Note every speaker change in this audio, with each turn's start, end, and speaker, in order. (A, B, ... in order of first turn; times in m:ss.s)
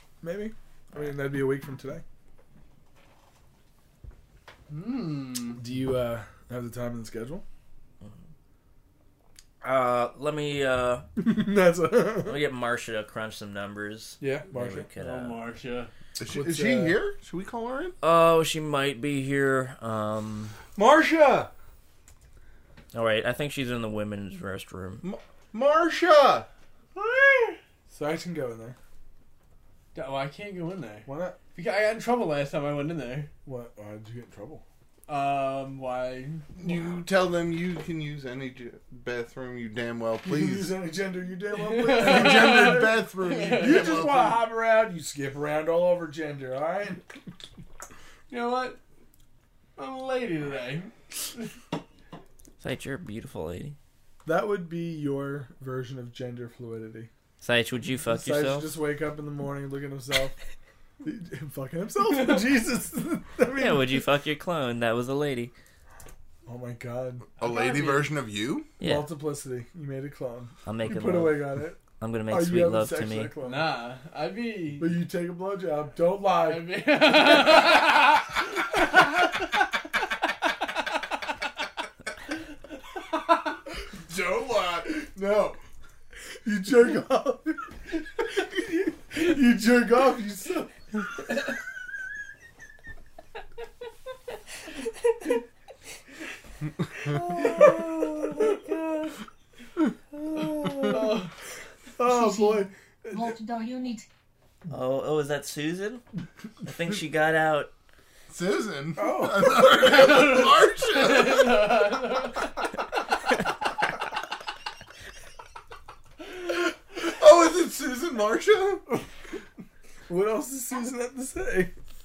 0:00.2-0:02.0 A
0:04.7-0:05.6 B
0:05.6-0:07.4 A
0:09.6-0:11.0 C
0:11.2-0:12.4 A
0:12.2-0:15.4 C
0:14.2-0:14.9 A
0:15.0-0:15.9 B
0:16.2-0:17.9 D
0:16.3-0:17.0 A
0:18.0-0:20.5 C
0:20.8-0:21.5 D
0:22.9-0:25.0 C
0:25.0-0:26.5 D
0:26.9-0:27.6 B
0:27.9-0:28.8 A
0:29.9-0:33.3 B
0:31.0-0:31.4 A
0:33.4-0:34.6 A
0:35.1-0:36.4 B
0:36.6-0:40.7 D
0:40.2-0:43.0 A
0:41.5-0:44.0 B
0:41.9-0:44.4 D
0:43.5-0:47.0 A
0:48.3-0:48.8 B
0:49.8-0:50.9 B
0:52.6-0:53.8 C
0:54.2-0:57.1 A
0:57.4-0:58.7 C
0:58.1-1:00.4 A
1:01.0-1:04.0 A
1:02.1-1:02.4 B
1:03.5-1:05.5 C
1:06.4-1:07.3 A
1:07.4-1:08.7 D
1:07.4-1:08.1 B
1:08.8-1:09.1 C
1:08.8-1:13.8 A
1:10.6-1:13.3 C
1:13.4-1:15.0 B
1:14.8-1:17.3 A
1:16.4-1:18.0 B
1:24.0-1:25.6 D
1:26.4-1:30.7 A
1:37.4-1:38.1 B
1:37.4-1:37.8 A
1:40.4-1:41.0 A
1:40.4-1:41.3 B
1:42.0-1:43.3 A
1:42.0-1:44.0 E
1:44.7-1:46.0 C
1:46.6-1:47.7 C
1:48.3-1:51.9 D
1:49.0-1:49.9 A
1:49.8-1:52.5 B
1:56.2-1:58.8 D
2:00.1-2:01.7 A